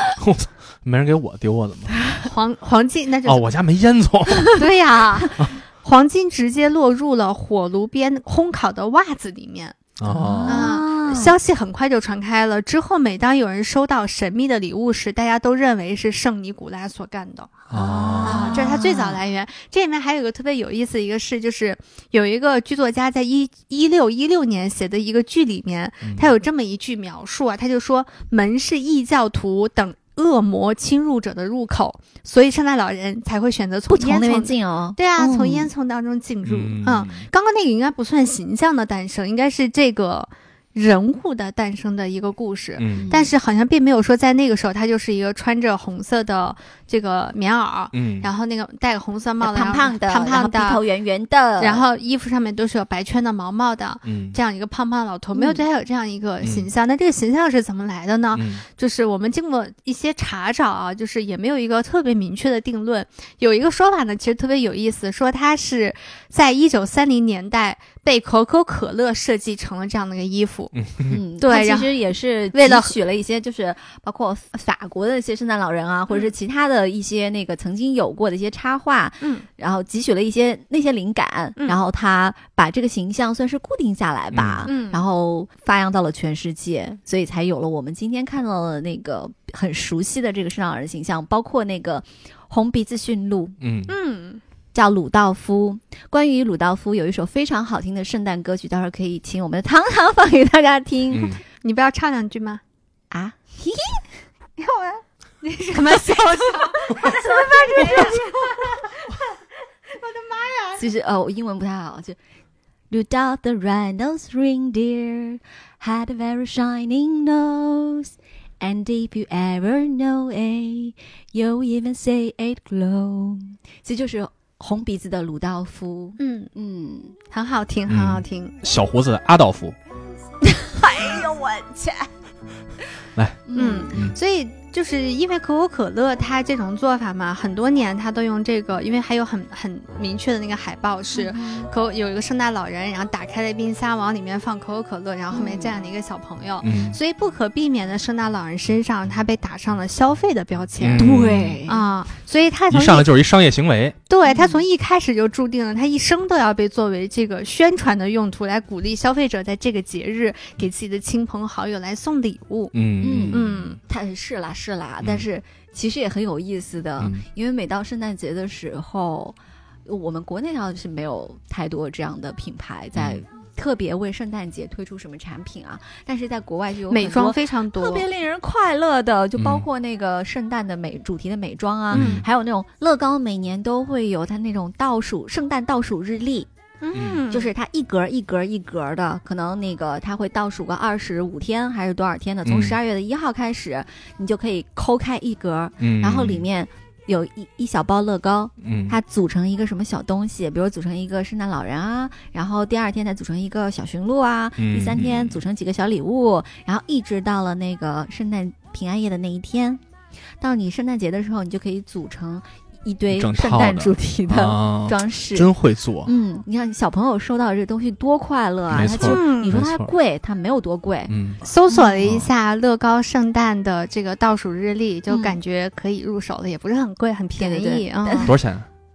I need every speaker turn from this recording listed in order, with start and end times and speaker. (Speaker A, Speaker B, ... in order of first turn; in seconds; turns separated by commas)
Speaker A: 0.2-2.1, Speaker B: 2.2-3.5, Speaker A: 3.2-4.5, Speaker B: 4.6-9.9, Speaker A: 10.0-10.7, Speaker C: 10.1-11.3, Speaker B: 10.4-17.7, Speaker A: 17.7-18.6, Speaker C: 17.7-19.2, Speaker B: 18.2-50.8, Speaker A: 26.0-26.3, Speaker C: 33.9-35.7, Speaker A: 36.4-37.3, Speaker A: 42.8-43.1, Speaker C: 42.9-43.3, Speaker A: 47.9-48.3, Speaker C: 49.4-51.9, Speaker B: 51.6-70.7, Speaker A: 54.0-54.4, Speaker C: 55.4-55.6, Speaker A: 56.4-56.7, Speaker A: 58.3-58.6, Speaker A: 70.7-71.2, Speaker C: 71.1-93.5, Speaker B: 71.4-72.0, Speaker B: 72.5-73.0, Speaker B: 76.1-76.3, Speaker B: 79.2-79.5, Speaker A: 84.3-84.7, Speaker B: 84.7-85.0, Speaker A: 93.6-93.9, Speaker B: 93.9-94.4, Speaker C: 94.7-101.4, Speaker A: 101.1-101.4, Speaker B: 101.6-102.6, Speaker C: 103.1-104.1, Speaker B: 104.6-104.9, Speaker B: 105.4-109.1, Speaker C: 106.6-108.8, Speaker B: 109.9-110.8, Speaker C: 110.8-112.2, Speaker C: 112.9-127.2, Speaker B: 126.2-126.5, Speaker B: 127.3-128.6, Speaker A: 127.9-129.8, Speaker C: 130.4-132.1, Speaker A: 133.2-133.4, Speaker C: 133.5-133.9, Speaker B: 133.6-151.1, Speaker C: 141.2-141.7, Speaker C: 145.3-145.7, Speaker A: 146.6-147.0, Speaker A: 150.8-151.6, Speaker C: 150.9-151.8, Speaker B: 151.7-153.1, Speaker A: 152.7-154.0, Speaker B: 154.1-162.7, Speaker C: 154.3-154.6, Speaker A: 162.7-163.8, Speaker C: 163.0-186.5, Speaker B: 163.3-163.8, Speaker A: 172.9-173.2, Speaker B: 176.9-178.1, Speaker A: 179.4-179.7, Speaker A: 181.9-182.2, Speaker B: 186.8-187.5, Speaker A: 186.9-187.2, Speaker C: 187.3-209.8, Speaker A: 192.5-192.8, Speaker A: 195.8-196.4, Speaker A: 198.6-199.0, Speaker A: 204.6-205.4, Speaker C: 210.4-215.5, Speaker A: 213.1-216.1, Speaker C: 216.0-221.1, Speaker A: 218.7-219.9, Speaker B: 218.8-219.6, Speaker A: 221.1-221.4, Speaker B: 221.4-228.4, Speaker C: 221.7-222.1, Speaker C: 225.1-225.4, Speaker C: 227.4-228.3, Speaker A: 228.2-228.7